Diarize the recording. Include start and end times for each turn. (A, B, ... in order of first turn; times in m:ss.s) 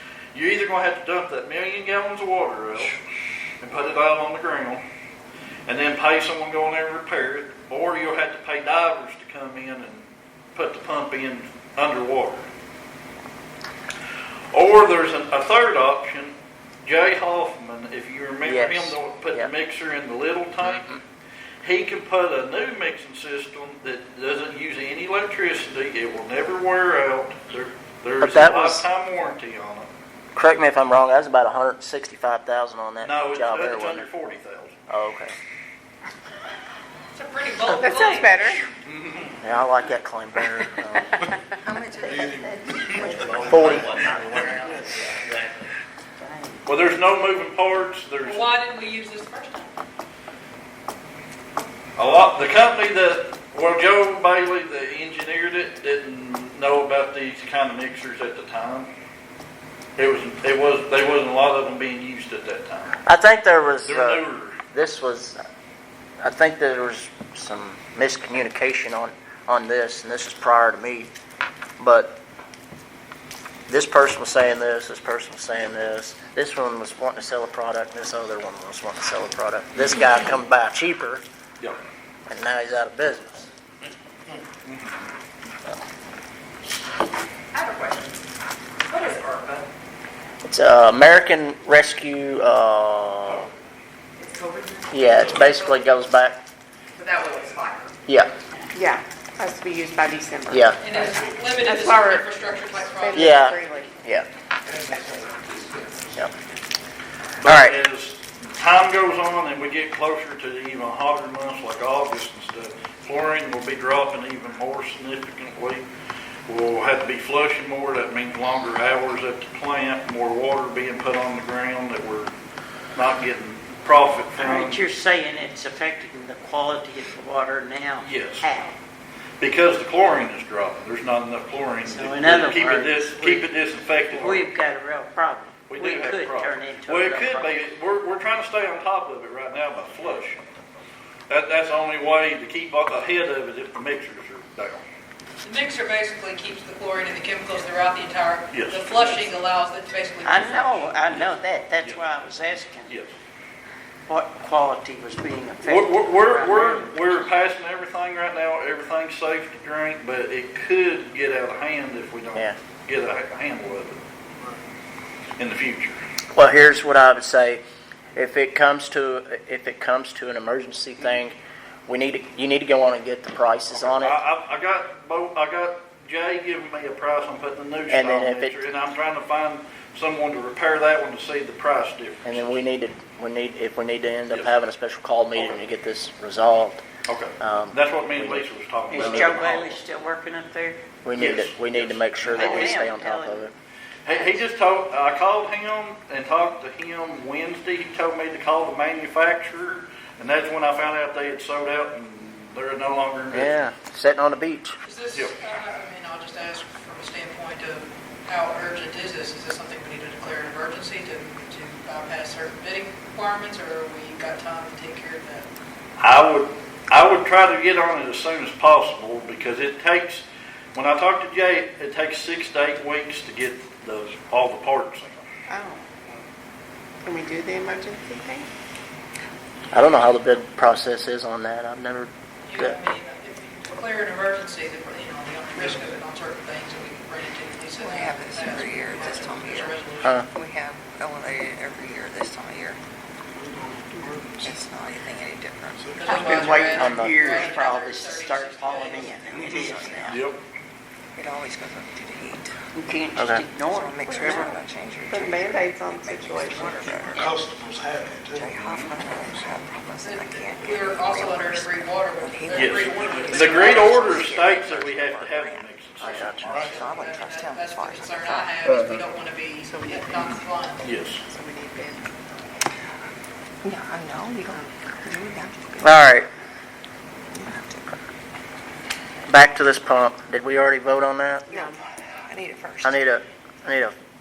0:00.3-0:03.0 A
0:03.6-0:04.8 A
0:05.7-0:12.5 A
0:14.5-0:21.0 A
0:18.5-0:19.5 B
0:20.6-0:21.0 B
0:21.6-0:29.9 A
0:28.2-0:28.9 B
0:30.4-0:34.1 B
0:33.0-0:34.8 A
0:34.9-0:35.3 B
0:37.2-0:38.5 C
0:37.6-0:38.6 D
0:38.8-0:39.4 A
0:39.4-0:41.1 B
0:41.6-0:42.8 E
0:42.1-0:44.6 F
0:42.9-0:44.3 G
0:43.1-0:45.6 B
0:46.2-0:46.6 G
0:46.7-0:48.6 A
0:48.2-0:49.7 C
0:52.0-0:58.9 A
1:00.0-1:03.0 A
1:03.0-1:05.4 B
1:03.9-1:04.6 A
1:06.2-1:11.1 B
1:11.8-1:12.2 B
1:13.7-1:21.2 B
1:22.3-1:23.5 B
1:24.6-1:24.9 A
1:27.5-1:28.1 C
1:28.9-1:29.7 C
1:30.4-1:33.5 B
1:34.2-1:35.8 C
1:34.9-1:36.4 B
1:37.0-1:38.0 C
1:38.1-1:38.3 B
1:38.7-1:40.8 D
1:40.5-1:41.0 B
1:40.8-1:43.4 C
1:41.5-1:43.9 D
1:43.1-1:44.3 B
1:44.7-1:46.2 F
1:47.4-1:55.8 A
1:47.4-1:47.8 B
1:56.5-2:02.3 A
2:03.0-2:04.8 A
2:04.4-2:08.8 G
2:08.0-2:08.5 A
2:09.4-2:14.4 A
2:11.8-2:13.4 G
2:14.1-2:17.6 G
2:15.7-2:20.5 A
2:21.3-2:24.8 A
2:25.4-2:31.0 C
2:28.5-2:28.9 A
2:30.2-2:32.9 G
2:31.8-2:32.0 A
2:32.9-2:33.1 A
2:34.1-2:37.3 G
2:35.6-2:44.0 A
2:45.4-2:46.0 A
2:46.3-2:47.6 B
2:48.2-2:51.4 B
2:51.9-2:54.2 B
2:53.7-3:02.4 A
2:57.9-2:58.6 B
3:02.2-3:06.8 B
3:07.1-3:09.8 A
3:07.4-3:09.4 B
3:08.9-3:10.8 G
3:11.0-3:13.5 B
3:11.2-3:12.8 A
3:12.3-3:13.5 G
3:14.0-3:23.6 A
3:23.3-3:24.8 B
3:24.8-3:35.5 C
3:36.0-3:45.3 A
3:45.5-3:46.2 D
3:47.0-3:48.5 D
3:49.7-3:52.8 B
3:52.5-4:00.2 C
3:55.6-3:55.8 F
3:57.8-4:02.8 E
4:03.4-4:04.6 F
4:04.4-4:06.6 E
4:05.8-4:06.6 F
4:06.0-4:09.2 C
4:06.2-4:10.2 G
4:06.8-4:07.3 B
4:09.4-4:10.2 E
4:10.1-4:10.4 A
4:11.2-4:12.5 E
4:12.8-4:14.4 G
4:13.2-4:13.4 B
4:13.6-4:17.4 E
4:14.1-4:17.3 D
4:17.1-4:19.5 F
4:18.3-4:28.6 E
4:20.0-4:24.4 C
4:22.5-4:26.8 A
4:22.8-4:23.4 F
4:26.0-4:26.6 B
4:26.4-4:26.7 F
4:26.5-4:30.9 C
4:28.7-4:29.0 B
4:29.7-4:30.4 D
4:30.8-4:31.2 A
4:31.0-4:32.1 D
4:33.6-4:36.0 E
4:35.8-4:36.3 B
4:37.3-4:37.9 E
4:39.3-4:41.5 B
4:41.5-4:41.8 D
4:41.5-4:43.0 E
4:42.8-4:43.9 B